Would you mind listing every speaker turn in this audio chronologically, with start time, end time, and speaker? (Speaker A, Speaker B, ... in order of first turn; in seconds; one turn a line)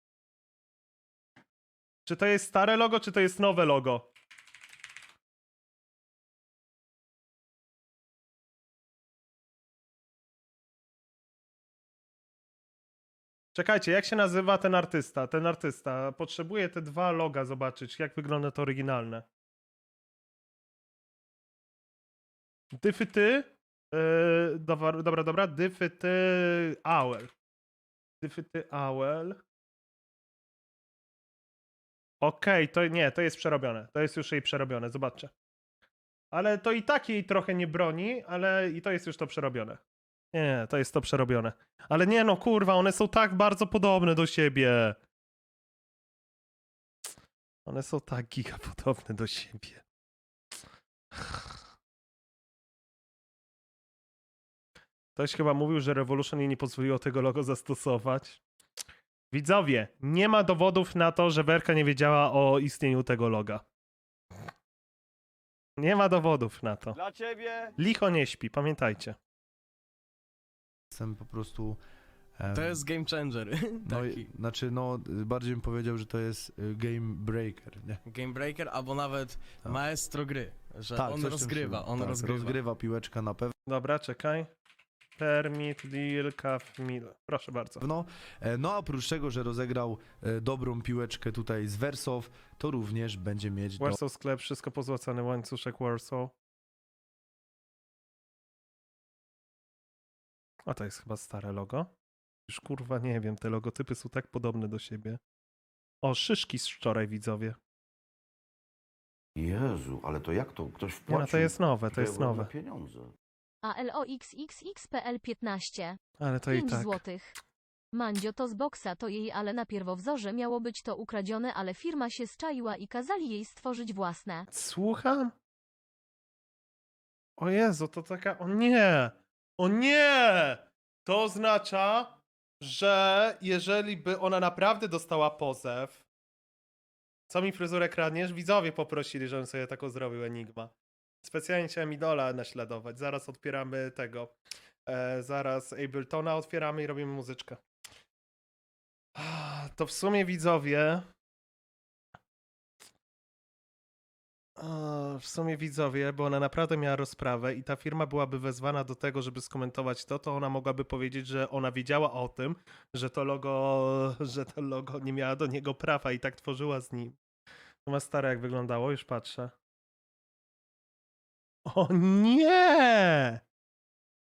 Speaker A: 2.0-4.1
Speaker A: 13.5-19.2
Speaker A: 22.8-27.3
Speaker A: 28.2-29.4
Speaker A: 32.2-35.3
Speaker A: 36.3-39.8
Speaker A: 40.3-45.0
Speaker A: 47.6-49.8
Speaker A: 51.1-51.5
Speaker A: 55.1-58.4
Speaker A: 59.3-63.6
Speaker A: 65.8-67.0
Speaker B: 67.0-67.7
Speaker A: 67.8-69.2
Speaker B: 70.9-71.8
Speaker B: 72.4-72.8
Speaker C: 72.5-74.3
Speaker B: 73.8-78.0
Speaker C: 78.0-82.6
Speaker B: 81.0-83.5
Speaker A: 83.7-84.5
Speaker A: 85.2-87.8
Speaker B: 87.8-94.0
Speaker A: 93.8-96.3
Speaker A: 100.7-101.9
Speaker A: 102.5-105.2
Speaker A: 106.0-107.6
Speaker D: 109.4-113.1
Speaker A: 111.1-112.5
Speaker E: 113.6-117.4
Speaker A: 116.2-117.0
Speaker E: 117.9-124.5
Speaker A: 124.5-125.3
Speaker A: 127.4-136.0
Speaker A: 137.3-140.7
Speaker A: 141.2-144.3
Speaker A: 144.9-147.6
Speaker A: 149.2-151.1
Speaker A: 154.6-167.2
Speaker A: 167.9-169.5
Speaker A: 171.7-173.4